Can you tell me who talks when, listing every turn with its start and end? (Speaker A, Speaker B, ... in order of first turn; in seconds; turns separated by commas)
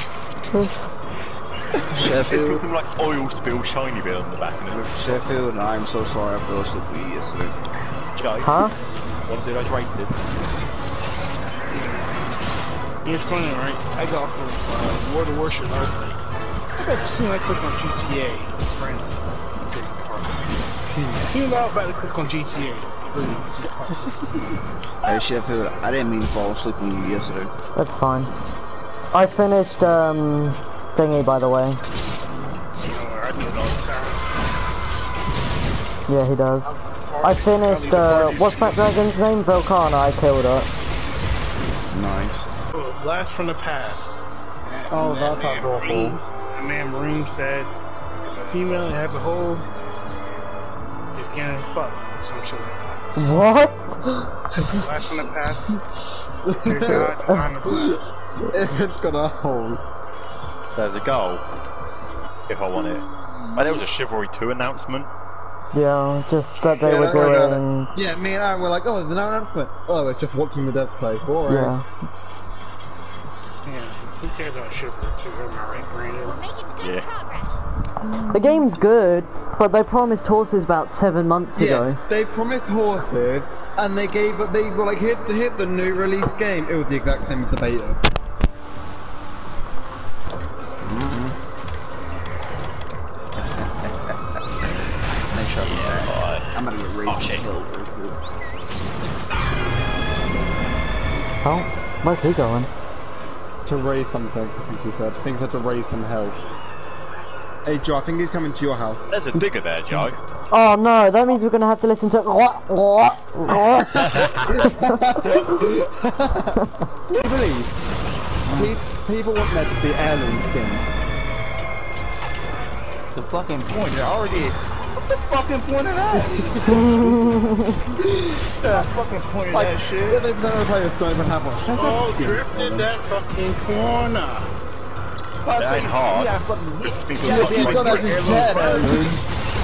Speaker A: 0.5-0.8, Speaker B: 1.9-2.7, Speaker C: 2.0-5.2, Speaker B: 4.9-7.5, Speaker C: 8.1-8.5, Speaker A: 8.4-8.7, Speaker C: 9.2-10.2, Speaker D: 11.7-12.1, Speaker D: 13.0-16.2, Speaker D: 16.8-20.4, Speaker E: 20.8-21.3, Speaker D: 21.2-24.6, Speaker B: 25.0-27.5, Speaker A: 27.8-28.3, Speaker A: 29.1-31.8, Speaker D: 32.8-34.4, Speaker A: 36.1-40.7, Speaker D: 36.6-39.0, Speaker B: 41.9-42.5, Speaker D: 42.7-44.1, Speaker D: 44.6-47.7, Speaker E: 44.9-46.2, Speaker D: 48.4-49.6, Speaker D: 51.1-52.8, Speaker A: 53.1-54.0, Speaker D: 54.7-55.7, Speaker E: 56.4-57.1, Speaker D: 56.5-58.1, Speaker E: 58.4-59.8, Speaker C: 60.7-61.4, Speaker C: 62.5-65.1, Speaker A: 65.7-67.9, Speaker E: 66.8-71.7, Speaker A: 71.5-71.8, Speaker D: 73.6-76.6, Speaker C: 76.7-77.2, Speaker A: 78.3-82.0, Speaker E: 81.5-88.0, Speaker B: 90.8-91.4, Speaker B: 93.6-94.1, Speaker B: 95.3-98.2, Speaker C: 95.6-96.5, Speaker C: 97.0-97.5, Speaker A: 101.4-102.7, Speaker E: 103.6-106.4, Speaker E: 107.6-109.1, Speaker C: 109.1-110.2, Speaker A: 110.5-115.3, Speaker C: 114.2-114.5, Speaker E: 114.6-116.5, Speaker E: 117.1-117.8, Speaker B: 118.5-118.7, Speaker E: 118.5-120.9, Speaker B: 123.1-126.7, Speaker E: 126.1-127.1, Speaker A: 126.7-127.8, Speaker E: 128.6-128.9, Speaker D: 128.6-129.8, Speaker E: 129.5-132.9, Speaker B: 129.5-130.2, Speaker D: 131.7-134.5, Speaker B: 135.4-139.2, Speaker C: 135.6-138.3, Speaker E: 137.2-139.1, Speaker D: 137.3-139.0